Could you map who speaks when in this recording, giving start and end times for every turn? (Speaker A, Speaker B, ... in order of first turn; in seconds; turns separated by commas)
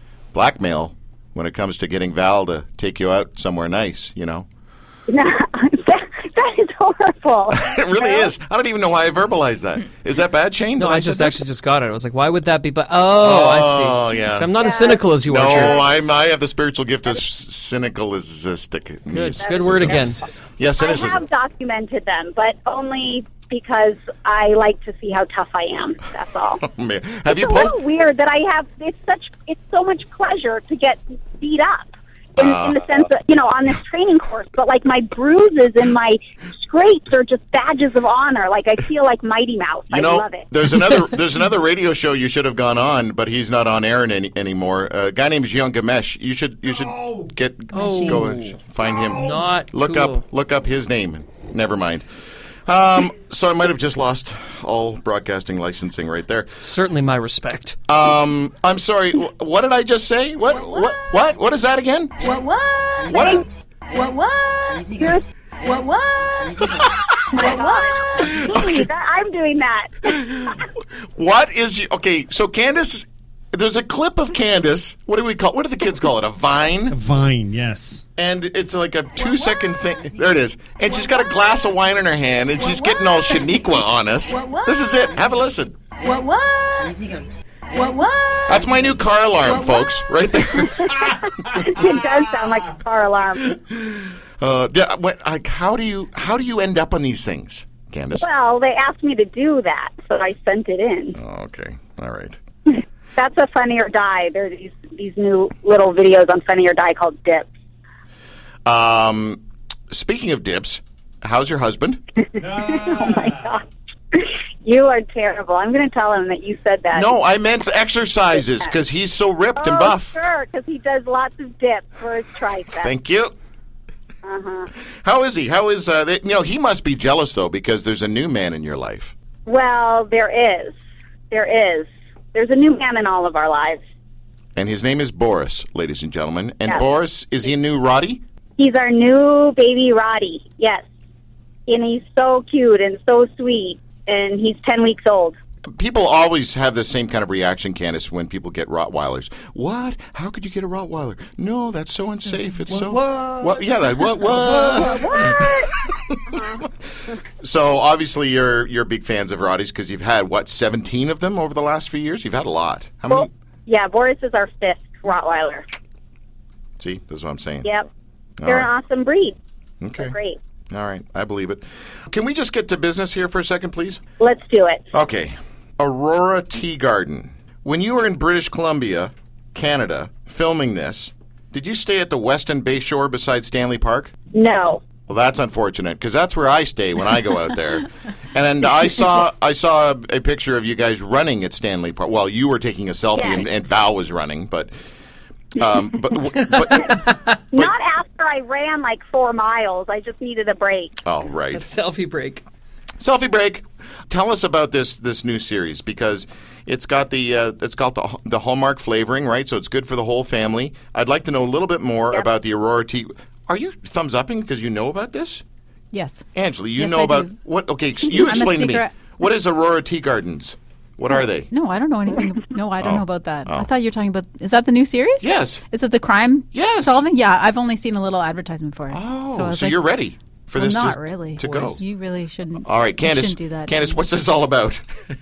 Speaker A: 0.3-4.5, Speaker B: 5.1-8.3, Speaker A: 7.5-11.4, Speaker C: 10.8-15.8, Speaker A: 13.2-14.5, Speaker B: 14.6-15.8, Speaker A: 15.2-21.2, Speaker C: 19.1-20.2, Speaker B: 19.4-19.8, Speaker B: 20.8-26.6, Speaker A: 26.6-27.8, Speaker B: 27.3-40.5, Speaker A: 32.4-32.9, Speaker A: 39.9-52.0, Speaker D: 47.7-48.3, Speaker C: 47.7-50.2, Speaker A: 52.7-56.6, Speaker C: 56.6-57.8, Speaker A: 57.9-62.2, Speaker E: 62.2-63.2, Speaker A: 63.1-63.5, Speaker B: 63.1-63.4, Speaker E: 63.9-66.7, Speaker B: 64.9-65.2, Speaker B: 67.3-70.2, Speaker E: 67.4-68.0, Speaker A: 68.2-68.9, Speaker A: 70.1-77.0, Speaker F: 76.9-78.0, Speaker A: 78.2-85.8, Speaker E: 82.6-83.0, Speaker E: 84.3-84.8, Speaker E: 86.0-87.1, Speaker E: 87.7-88.6, Speaker A: 88.5-91.7, Speaker E: 89.4-89.9, Speaker B: 90.6-93.6, Speaker A: 93.5-98.2, Speaker B: 98.2-101.2, Speaker A: 101.2-102.4, Speaker B: 103.2-107.5, Speaker A: 108.6-112.0, Speaker B: 112.3-117.1, Speaker F: 112.4-113.5, Speaker A: 116.9-120.2, Speaker B: 119.6-122.9, Speaker A: 122.8-123.3, Speaker B: 124.2-124.7, Speaker A: 125.0-129.1, Speaker B: 129.4-130.7, Speaker B: 131.3-133.8, Speaker A: 134.6-138.2, Speaker B: 138.6-140.8, Speaker B: 141.7-145.4, Speaker A: 145.7-155.5, Speaker F: 152.7-155.4, Speaker B: 154.7-155.7, Speaker A: 156.1-156.6, Speaker A: 157.4-163.3, Speaker B: 163.1-165.6, Speaker A: 166.8-167.7, Speaker A: 168.4-168.7, Speaker B: 168.4-169.3, Speaker A: 169.8-170.1, Speaker B: 170.0-170.4, Speaker A: 170.7-174.0, Speaker B: 174.2-174.8, Speaker A: 174.9-184.1, Speaker B: 184.3-184.8, Speaker A: 185.1-194.7, Speaker B: 193.2-193.4, Speaker A: 195.5-197.7, Speaker C: 197.0-197.3, Speaker B: 197.5-201.0, Speaker A: 201.0-201.7, Speaker C: 201.5-202.4, Speaker A: 203.0-215.4, Speaker D: 215.9-216.2, Speaker A: 216.3-221.5, Speaker D: 216.8-217.3, Speaker D: 218.1-218.9, Speaker D: 221.5-229.8, Speaker A: 222.8-223.7, Speaker A: 225.2-225.6, Speaker A: 226.5-227.0, Speaker A: 228.9-231.8, Speaker D: 230.5-234.0, Speaker A: 232.6-234.9